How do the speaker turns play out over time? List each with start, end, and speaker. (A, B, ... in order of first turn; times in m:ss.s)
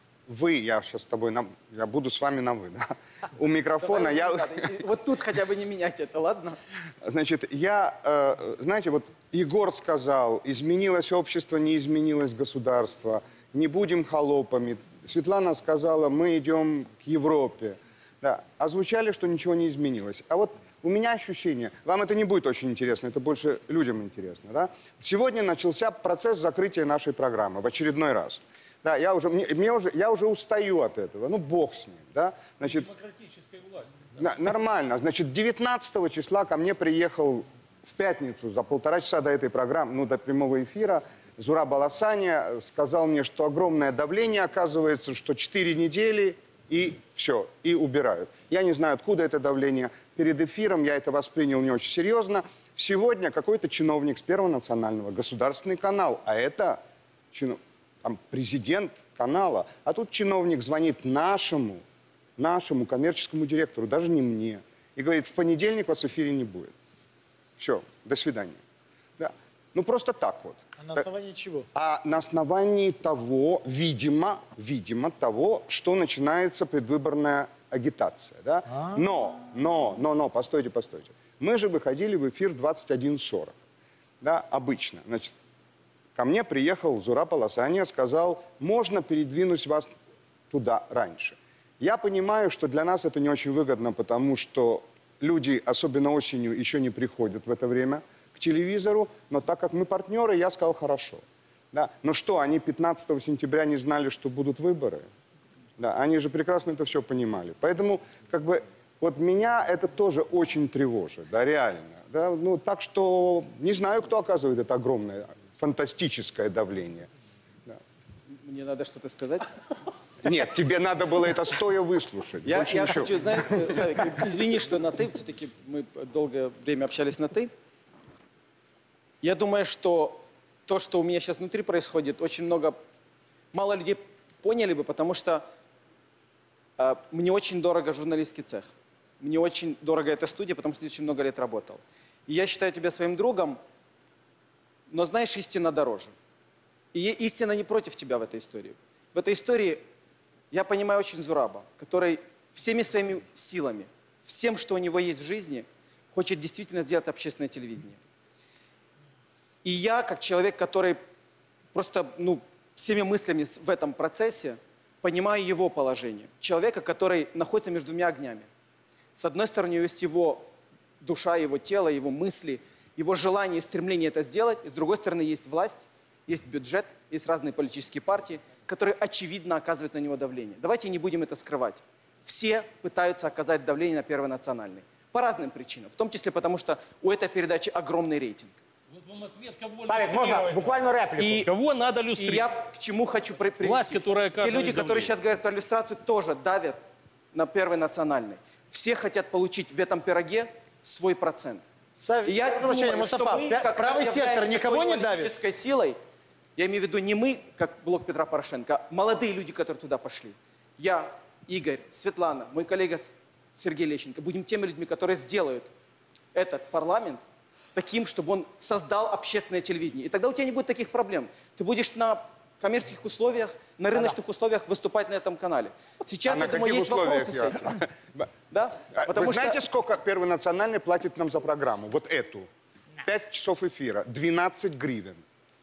0:00.3-0:04.7 A
0:03.8-0:06.6 B
0:07.0-0:32.9 A
0:32.9-0:34.1 C
0:34.2-0:56.8 A
0:57.3-1:01.8 A
1:02.4-1:06.7 A
1:07.6-1:08.6 A
1:09.2-1:11.1 A
1:10.8-1:11.7 D
1:11.8-1:23.6 A
1:24.2-1:25.3 A
1:26.2-1:29.9 A
1:30.5-1:45.1 A
1:45.8-1:57.1 A
1:58.4-1:59.5 B
2:00.2-2:03.4 A
2:02.4-2:07.5 B
2:09.2-2:12.8 B
2:13.5-2:15.4 B
2:16.8-2:23.6 B
2:24.9-2:26.1 B
2:26.9-2:29.8 B
2:30.5-2:38.0 B
2:39.6-2:41.0 B
2:41.7-2:48.5 B
2:49.2-2:50.4 B
2:51.0-3:08.6 B
3:09.0-3:12.5 C
3:10.1-3:11.2 D
3:11.2-3:11.5 B
3:12.2-3:16.8 B
3:13.6-3:15.1 C
3:17.3-3:21.6 B
3:22.0-3:25.3 D
3:22.2-3:26.0 B
3:26.6-3:35.7 B
3:36.4-3:37.2 B
3:37.8-3:47.8 B
3:46.3-3:48.3 A
3:48.5-3:49.6 B
3:48.9-3:52.5 A
3:53.0-3:55.2 A